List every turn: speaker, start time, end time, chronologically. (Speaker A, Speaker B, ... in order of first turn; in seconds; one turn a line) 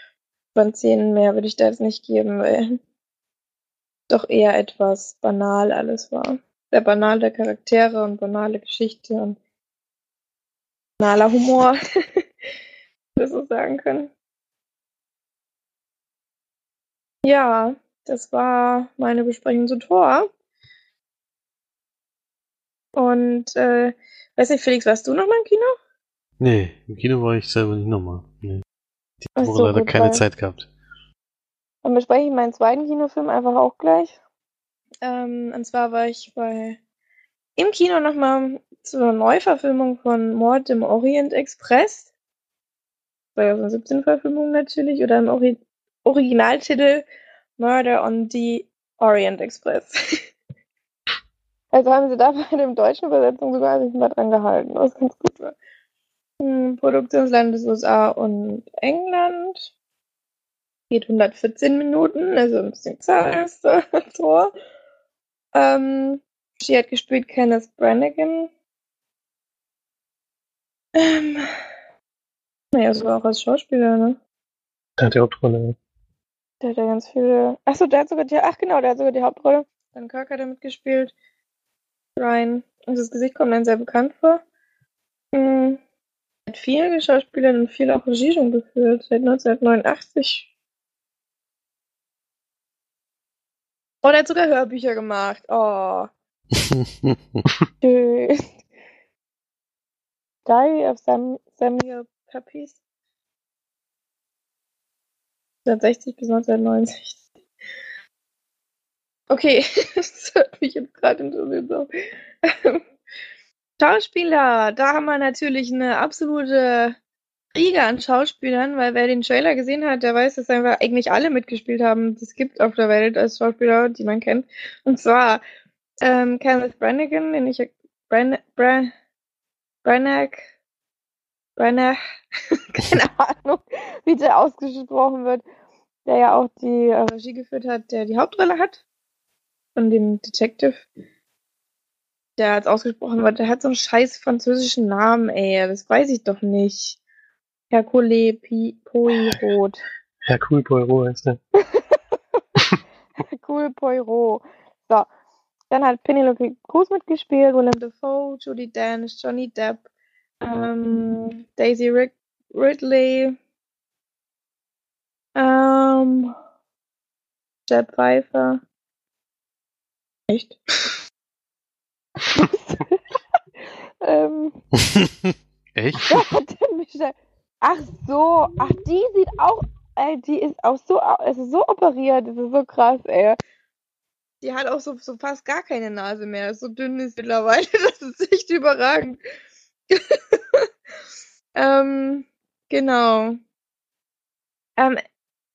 Speaker A: 0.6-2.8
Speaker A: 4.1-9.4
Speaker A: 11.0-11.8
Speaker A: 13.2-14.1
Speaker A: 17.2-20.3
Speaker A: 23.0-25.8
Speaker B: 26.4-28.6
Speaker B: 29.3-30.7
Speaker A: 29.4-30.2
Speaker A: 31.8-34.2
Speaker A: 35.0-36.8
Speaker A: 37.6-42.1
Speaker A: 43.4-47.0
Speaker A: 47.6-50.2
Speaker A: 51.7-55.5
Speaker A: 56.4-59.7
Speaker A: 60.9-64.5
Speaker A: 65.5-68.5
Speaker A: 71.0-71.5
Speaker A: 72.7-74.2
Speaker C: 75.0-75.8
Speaker A: 76.6-81.1
Speaker A: 82.2-84.4
Speaker A: 85.3-85.8
Speaker A: 86.5-90.5
Speaker A: 94.0-96.1
Speaker B: 96.5-97.4
Speaker A: 97.8-98.5
Speaker A: 100.5-102.8
Speaker A: 105.7-107.2
Speaker A: 109.3-111.9
Speaker A: 112.4-112.8
Speaker A: 113.8-117.0
Speaker A: 117.5-125.4
Speaker A: 126.0-128.9
Speaker A: 129.8-130.5
Speaker A: 131.6-132.0
Speaker A: 132.6-135.4
Speaker A: 136.1-138.8
Speaker A: 139.8-140.8
Speaker A: 142.4-147.0
Speaker A: 147.7-149.8
Speaker C: 150.3-151.4
Speaker A: 151.6-152.0
Speaker A: 153.2-155.1
Speaker A: 155.7-159.8
Speaker A: 160.4-163.4
Speaker A: 165.4-166.3
Speaker A: 167.7-168.6
Speaker A: 170.3-170.9
Speaker A: 172.3-173.0
Speaker A: 174.0-174.6
Speaker B: 174.9-176.2
Speaker A: 176.1-183.4
Speaker A: 184.4-189.2
Speaker A: 189.9-190.7
Speaker A: 191.6-193.4